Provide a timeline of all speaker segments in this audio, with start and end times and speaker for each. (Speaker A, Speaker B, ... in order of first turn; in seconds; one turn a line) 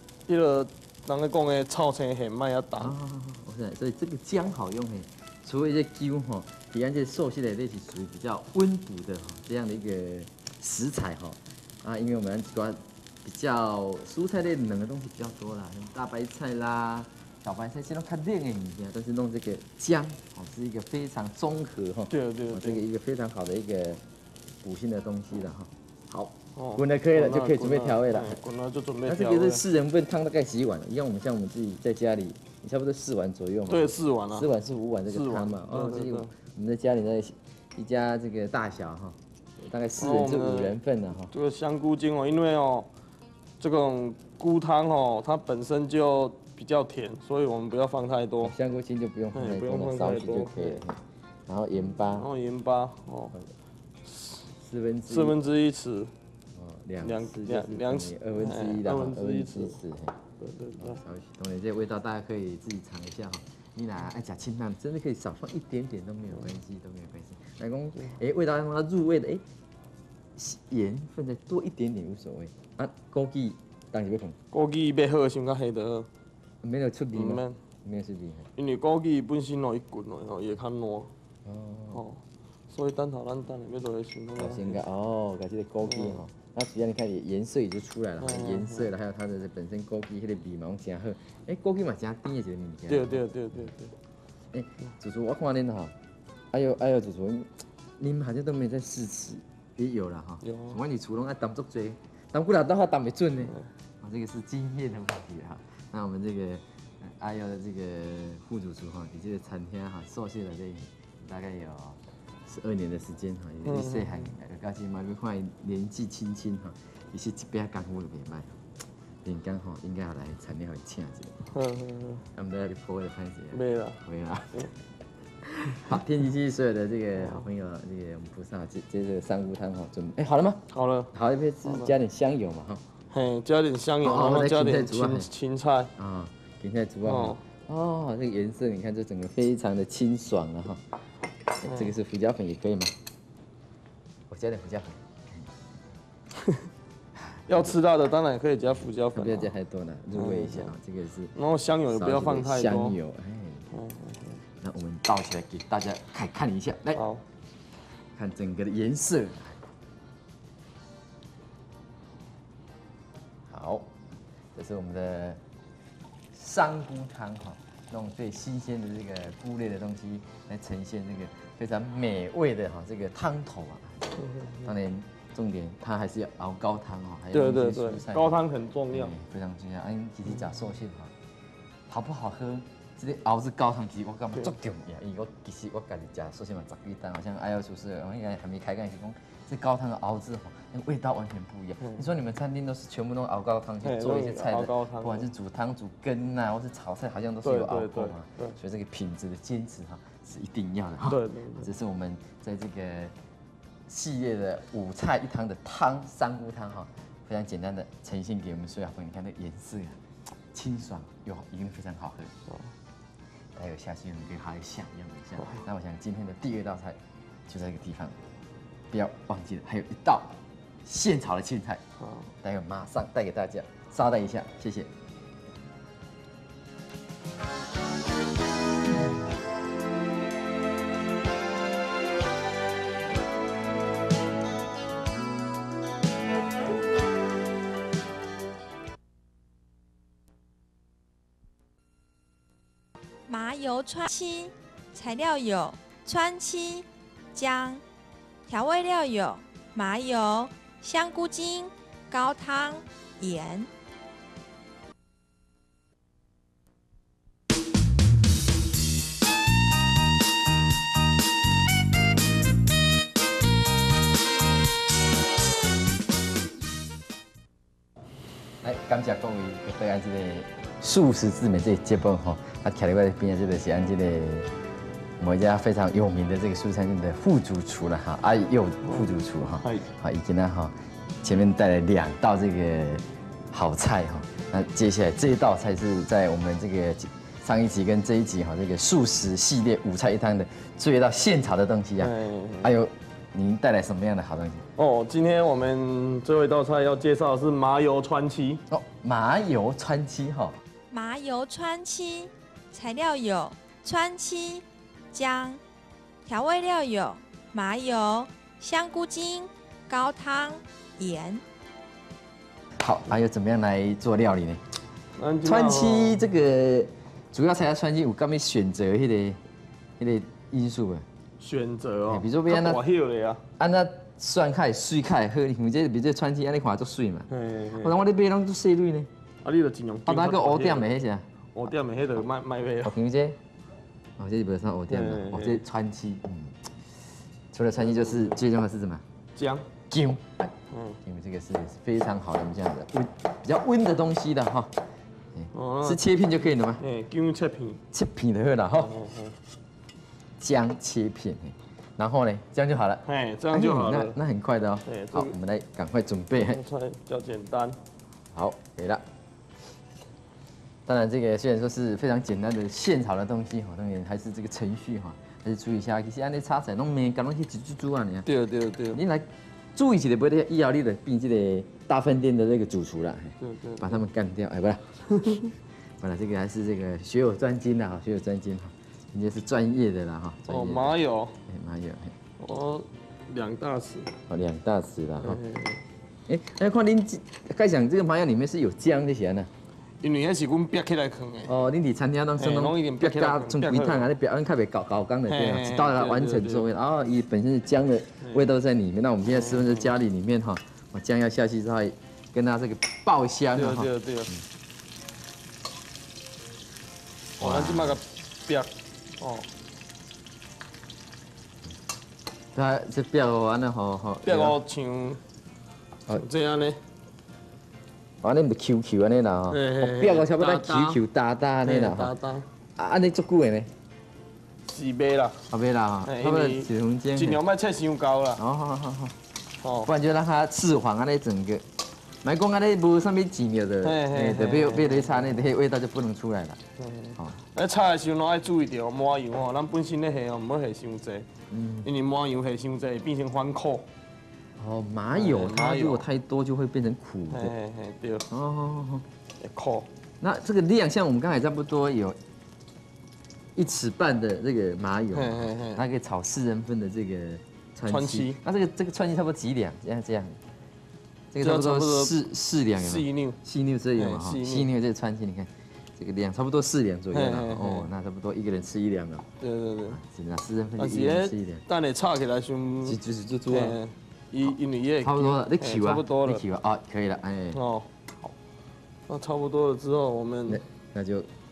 Speaker A: 0.3-2.9
Speaker B: 2.8-24.0
Speaker A: 22.1-22.8
Speaker B: 24.6-28.4
Speaker A: 26.6-29.6
Speaker B: 29.1-41.3
Speaker A: 33.7-34.5
Speaker A: 35.1-36.3
Speaker A: 40.0-40.8
Speaker A: 41.3-42.9
Speaker A: 43.6-48.5
Speaker B: 48.4-52.3
Speaker A: 49.3-50.8
Speaker A: 52.0-53.4
Speaker A: 54.0-54.4
Speaker B: 54.6-55.4
Speaker A: 55.1-56.1
Speaker B: 56.5-60.2
Speaker A: 57.0-59.8
Speaker A: 60.4-61.0
Speaker B: 60.8-69.4
Speaker B: 70.4-74.4
Speaker A: 74.5-76.1
Speaker B: 76.6-78.5
Speaker A: 77.1-77.6
Speaker A: 78.6-81.1
Speaker B: 81.5-82.0
Speaker A: 81.9-84.8
Speaker B: 84.4-93.3
Speaker A: 85.8-86.2
Speaker A: 88.2-88.9
Speaker A: 92.9-93.9
Speaker B: 94.5-95.9
Speaker B: 96.5-118.6
Speaker A: 100.4-100.8
Speaker A: 113.7-114.3
Speaker B: 119.2-121.4
Speaker A: 121.5-122.3
Speaker B: 122.3-124.7
Speaker A: 123.5-124.7
Speaker B: 125.4-132.8
Speaker A: 127.2-127.5
Speaker A: 130.7-131.1
Speaker A: 131.7-131.9
Speaker A: 133.1-135.9
Speaker B: 134.0-135.3
Speaker B: 136.0-140.8
Speaker A: 137.1-137.4
Speaker B: 141.6-142.9
Speaker A: 141.7-141.9
Speaker B: 144.3-145.5
Speaker A: 147.5-149.6
Speaker B: 149.1-151.3
Speaker A: 150.1-150.8
Speaker A: 151.3-153.0
Speaker B: 151.9-153.7
Speaker A: 153.7-154.4
Speaker B: 154.6-157.0
Speaker A: 156.9-157.2
Speaker B: 158.2-159.6
Speaker B: 163.5-163.9
Speaker B: 164.6-165.4
Speaker B: 166.3-178.4
Speaker A: 174.2-174.7
Speaker A: 177.3-179.2
Speaker B: 178.9-181.1
Speaker B: 181.9-203.1
Speaker A: 191.8-192.1
Speaker A: 193.8-195.3
Speaker A: 197.4-198.6
Speaker A: 201.1-201.7
Speaker B: 203.9-210.0
Speaker B: 210.5-212.3
Speaker B: 213.6-218.2
Speaker B: 218.9-221.8
Speaker A: 222.0-222.3
Speaker B: 222.4-224.9
Speaker C: 243.3-247.8
Speaker C: 248.5-253.7
Speaker B: 268.6-274.5
Speaker B: 275.2-294.7
Speaker A: 278.9-279.1
Speaker A: 292.0-292.7
Speaker A: 294.8-298.6
Speaker B: 298.7-300.6
Speaker C: 300.9-305.6
Speaker C: 306.3-311.4
Speaker B: 312.8-314.6
Speaker A: 315.1-316.2
Speaker B: 315.4-319.4
Speaker B: 320.0-321.1
Speaker A: 321.4-323.4
Speaker B: 322.1-322.8
Speaker B: 323.6-329.1
Speaker A: 327.3-327.9
Speaker A: 329.4-330.9
Speaker B: 330.1-331.3
Speaker A: 331.5-333.0
Speaker B: 332.9-333.4
Speaker B: 334.2-336.6
Speaker A: 334.9-335.6
Speaker B: 337.5-339.0
Speaker A: 337.8-338.4
Speaker A: 339.4-339.7
Speaker B: 339.9-340.5
Speaker A: 340.7-341.0
Speaker B: 341.0-344.8
Speaker B: 345.4-346.8
Speaker A: 345.5-346.0
Speaker A: 346.8-347.8
Speaker B: 347.9-349.0
Speaker A: 348.8-349.4
Speaker B: 350.4-356.6
Speaker A: 353.1-354.2
Speaker A: 354.9-355.4
Speaker A: 356.4-357.8
Speaker B: 358.3-359.0
Speaker B: 360.9-368.3
Speaker A: 368.2-369.0
Speaker B: 368.9-375.5
Speaker A: 373.4-374.0
Speaker B: 376.0-382.1
Speaker A: 380.5-381.4
Speaker A: 382.4-384.1
Speaker B: 384.3-385.4
Speaker A: 385.2-385.8
Speaker B: 386.3-389.5
Speaker A: 390.0-391.6
Speaker B: 391.5-404.4
Speaker A: 392.4-394.1
Speaker A: 395.3-396.7
Speaker A: 399.3-399.9
Speaker A: 403.5-404.3
Speaker B: 407.4-408.0
Speaker A: 407.4-409.5
Speaker B: 412.6-414.6
Speaker A: 414.2-415.2
Speaker A: 416.1-416.8
Speaker B: 418.2-422.1
Speaker A: 419.5-421.0
Speaker A: 421.6-422.5
Speaker B: 422.8-423.7
Speaker A: 424.6-425.4
Speaker B: 425.5-427.4
Speaker A: 426.0-428.4
Speaker B: 428.4-429.2
Speaker A: 429.6-429.9
Speaker B: 429.8-431.6
Speaker B: 432.2-436.6
Speaker A: 433.8-435.5
Speaker A: 436.8-441.3
Speaker B: 441.5-441.9
Speaker A: 441.8-443.9
Speaker B: 444.6-447.5
Speaker A: 445.1-446.1
Speaker A: 447.3-448.3
Speaker B: 448.3-449.1
Speaker A: 449.4-449.9
Speaker B: 450.2-452.2
Speaker B: 453.6-460.4
Speaker A: 455.1-455.8
Speaker A: 457.9-458.4
Speaker B: 461.3-469.3
Speaker A: 461.4-462.1
Speaker A: 462.8-463.4
Speaker A: 463.9-464.7
Speaker A: 467.1-467.9
Speaker A: 469.4-470.0
Speaker B: 469.9-471.6
Speaker A: 470.8-476.4
Speaker B: 472.8-473.8
Speaker B: 475.0-477.6
Speaker A: 477.5-478.3
Speaker A: 479.1-480.6
Speaker B: 480.5-481.3